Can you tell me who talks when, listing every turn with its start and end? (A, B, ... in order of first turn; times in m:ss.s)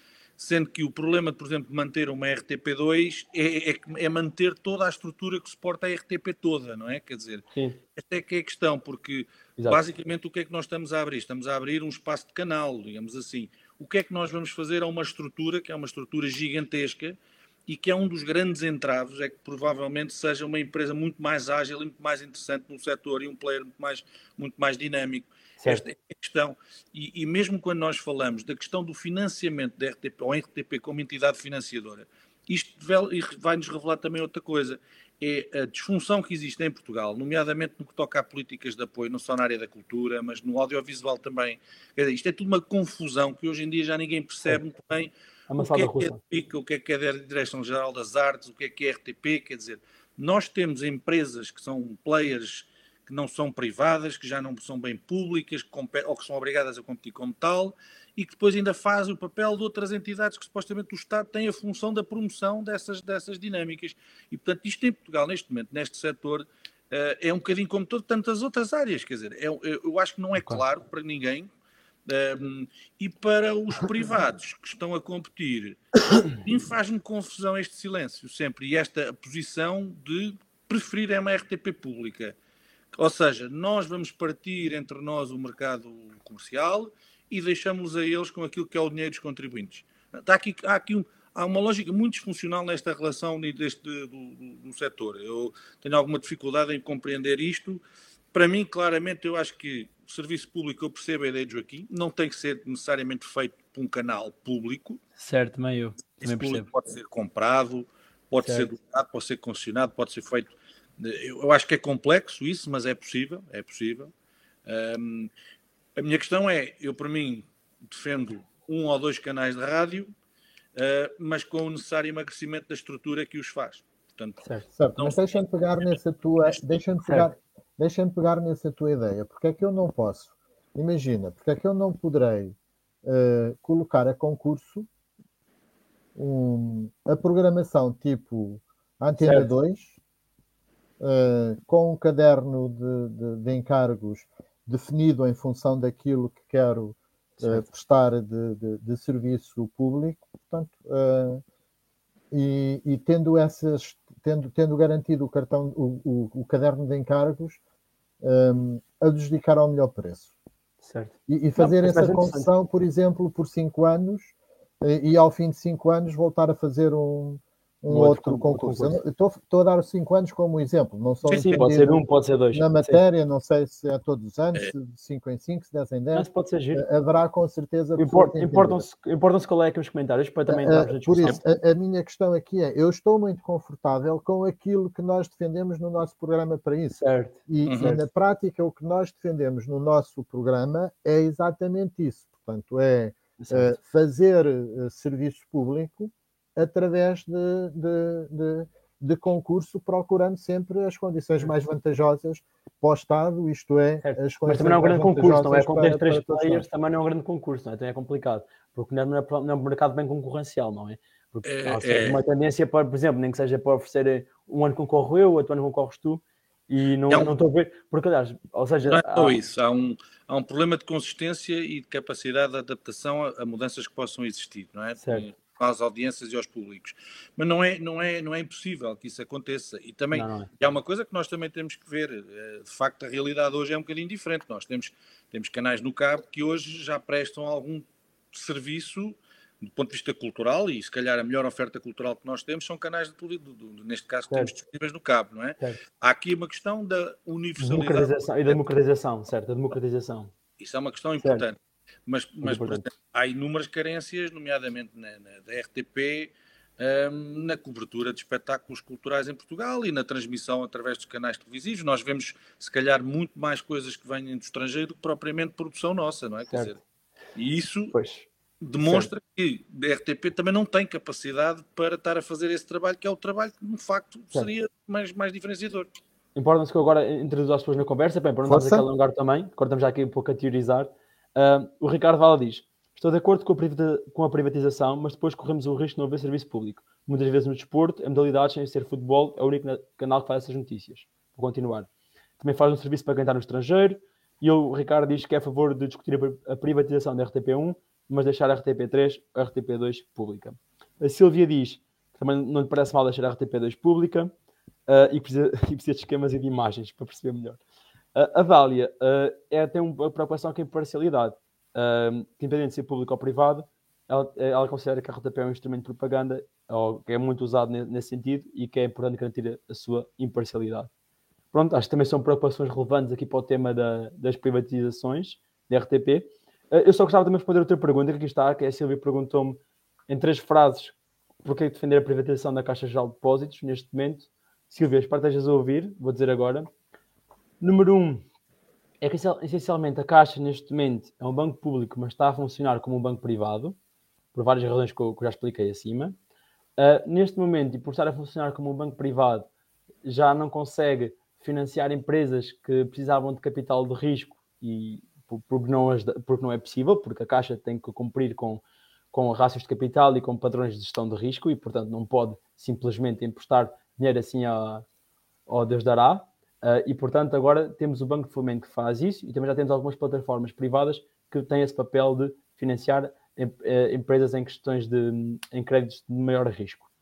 0:00.4-0:07.4 A
0:07.5-0:07.8 B
0:08.0-1:11.5 A
0:45.5-0:46.2 B
1:12.1-1:22.4 A
1:23.0-1:37.8 A
1:38.3-1:45.0 A
1:45.2-1:46.7 B
1:46.2-1:54.1 A
1:48.4-1:48.7 B
1:54.7-1:55.3 A
1:56.0-2:00.1 A
2:00.8-2:04.4 A
2:04.4-2:04.7 B
2:04.8-2:14.9 C
2:05.0-2:05.4 A
2:16.2-2:20.0 C
2:19.2-2:19.5 B
2:21.0-2:31.4 C
2:27.4-2:27.7 B
2:32.3-2:37.6 C
2:38.2-2:40.3 C
2:40.8-2:42.5 B
2:41.3-2:52.0 C
2:47.9-2:49.0 B
2:51.3-2:51.6 A
2:51.3-2:53.0 B
2:52.5-2:58.9 C
2:56.1-2:56.8 B
2:58.0-3:01.4 B
3:00.5-3:26.7 C
3:07.0-3:08.0 B
3:07.6-3:08.0 A
3:13.4-3:13.8 B
3:24.0-3:39.4 B
3:31.4-3:32.2 A
3:38.8-4:08.6 A
3:45.0-3:45.3 B
3:50.1-3:50.5 B
4:07.6-4:10.3 B
4:10.6-4:26.8 A
4:11.2-4:11.4 B
4:12.4-4:12.9 B
4:26.5-4:26.8 B
4:27.4-4:28.0 A
4:27.9-4:28.3 B
4:28.6-4:35.9 A
4:28.8-4:29.1 B
4:36.4-5:04.3 B
4:38.4-4:38.8 C
5:04.9-5:07.6 B
5:08.2-5:20.9 B
5:21.5-5:36.7 B
5:37.6-5:38.2 B
5:39.0-5:43.8 B
5:44.3-5:46.2 B
5:46.8-5:49.5 B
5:50.0-6:04.8 B
6:05.5-6:16.9 B